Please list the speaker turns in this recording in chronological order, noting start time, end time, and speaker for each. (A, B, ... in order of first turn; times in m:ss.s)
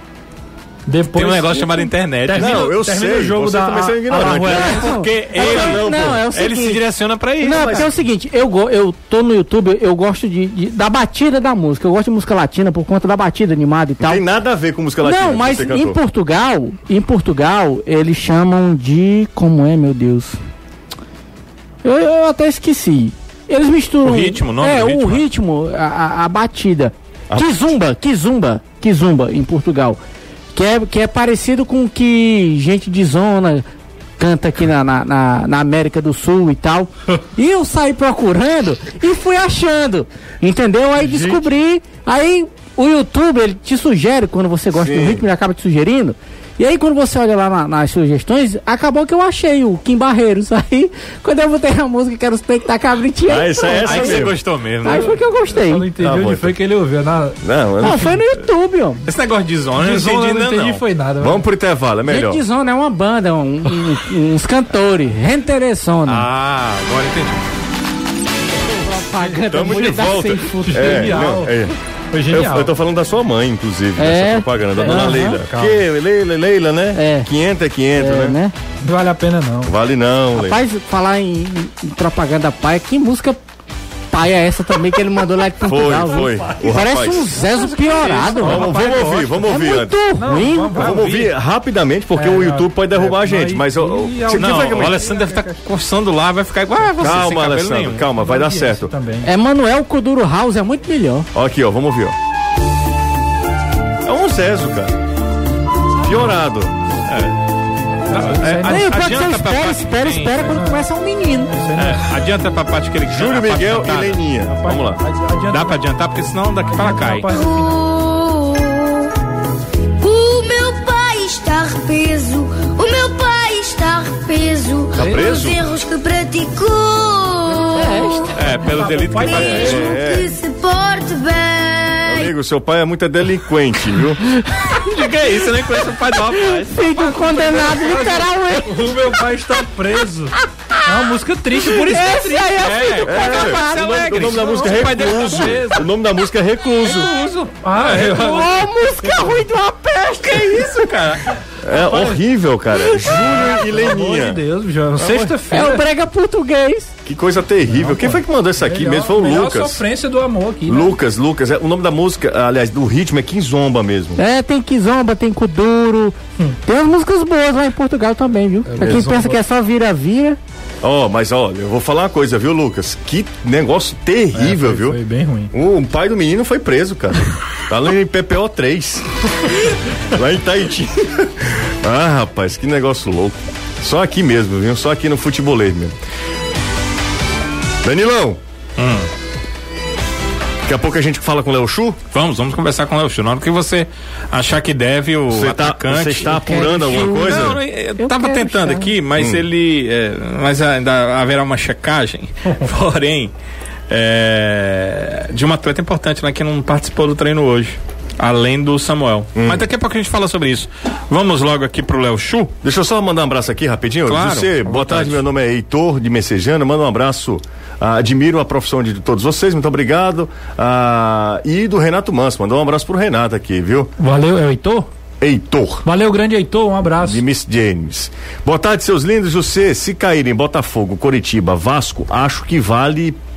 0:00.9-0:04.9 A
0:01.1-0:02.7 B
0:02.3-0:06.2 C
0:04.5-0:07.9 B
0:04.5-0:06.8 D
0:07.4-0:14.2 D
0:07.5-0:07.9 C
0:14.0-0:16.0 C
0:15.0-0:20.4 D
0:21.8-0:30.0 D
0:24.0-0:25.2 B
0:30.5-0:33.6 D
0:34.2-0:54.3 D
0:44.7-0:45.2 C
0:53.3-0:54.4 C
0:53.8-0:55.1 B
0:54.8-0:55.9 D
0:54.9-0:58.2 A
0:56.0-0:56.6 C
0:57.4-0:58.2 C
0:57.8-0:59.0 D
0:59.1-1:00.8 B
0:59.8-1:01.4 A
1:01.2-1:02.4 C
1:02.0-1:06.3 D
1:06.1-1:07.4 B
1:08.7-1:11.2 D
1:09.2-1:11.6 A
1:09.5-1:11.8 C
1:12.1-1:12.7 A
1:12.3-1:18.4 C
1:14.0-1:15.4 D
1:14.8-1:15.8 A
1:16.9-1:17.3 D
1:17.9-1:18.5 D
1:18.8-1:19.7 A
1:19.6-1:20.6 C
1:20.3-1:23.4 D
1:24.1-1:31.0 D
1:25.6-1:27.4 C
1:26.1-1:26.6 A
1:27.3-1:29.5 A
1:28.4-1:35.0 C
1:30.2-1:31.3 A
1:32.1-1:35.6 A
1:34.3-1:38.1 B
1:37.0-1:38.9 C
1:38.2-1:39.3 A
1:39.2-1:41.3 D
1:41.3-1:42.1 C
1:44.0-1:45.0 C
1:46.0-1:46.8 C
1:47.0-1:47.4 B
1:48.1-1:49.0 A
1:48.1-1:50.6 B
1:48.6-1:51.5 D
1:50.4-1:50.8 A
1:51.5-1:52.1 A
1:51.8-1:54.2 B
1:53.1-1:55.0 C
1:54.5-1:55.8 A
1:55.5-1:57.3 B
1:56.6-1:57.8 A
1:57.3-1:59.1 E
2:00.0-2:08.4 E
2:04.9-2:05.6 C
2:07.6-2:09.9 A
2:07.7-2:08.2 D
2:08.3-2:09.9 B
2:09.2-2:12.3 E
2:09.3-2:10.3 C
2:12.1-2:14.2 C
2:14.5-2:14.9 D
2:14.8-2:16.9 B
2:16.4-2:19.1 D
2:16.9-2:22.7 A
2:21.7-2:24.4 D
2:22.6-2:25.7 B
2:23.0-2:27.1 C
2:24.3-2:25.8 A
2:26.9-2:28.4 B
2:27.4-2:29.4 A
2:27.9-2:30.8 D
2:30.2-2:31.4 B
2:31.6-2:34.4 C
2:31.7-2:32.2 A
2:33.0-2:35.8 A
2:35.0-2:35.4 C
2:35.5-2:36.9 D
2:37.0-2:39.8 C
2:37.7-2:41.0 A
2:40.7-2:44.2 C
2:44.2-2:50.4 D
2:48.6-2:49.4 A
2:48.8-2:49.1 C
2:50.8-2:55.0 C
2:54.3-2:55.5 A
2:55.5-3:06.0 C
3:07.8-3:08.4 C
3:08.8-3:09.1 B
3:10.6-3:12.0 C
3:12.1-3:23.3 B
3:15.3-3:17.6 C
3:16.3-3:18.9 D
3:19.2-3:19.4 C
3:23.9-3:32.5 B
3:29.4-3:29.6 C
3:32.6-3:43.9 C
3:34.1-3:35.2 B
3:44.0-3:44.9 A
3:45.2-3:45.9 C
3:45.8-3:47.2 A
3:47.0-3:53.2 C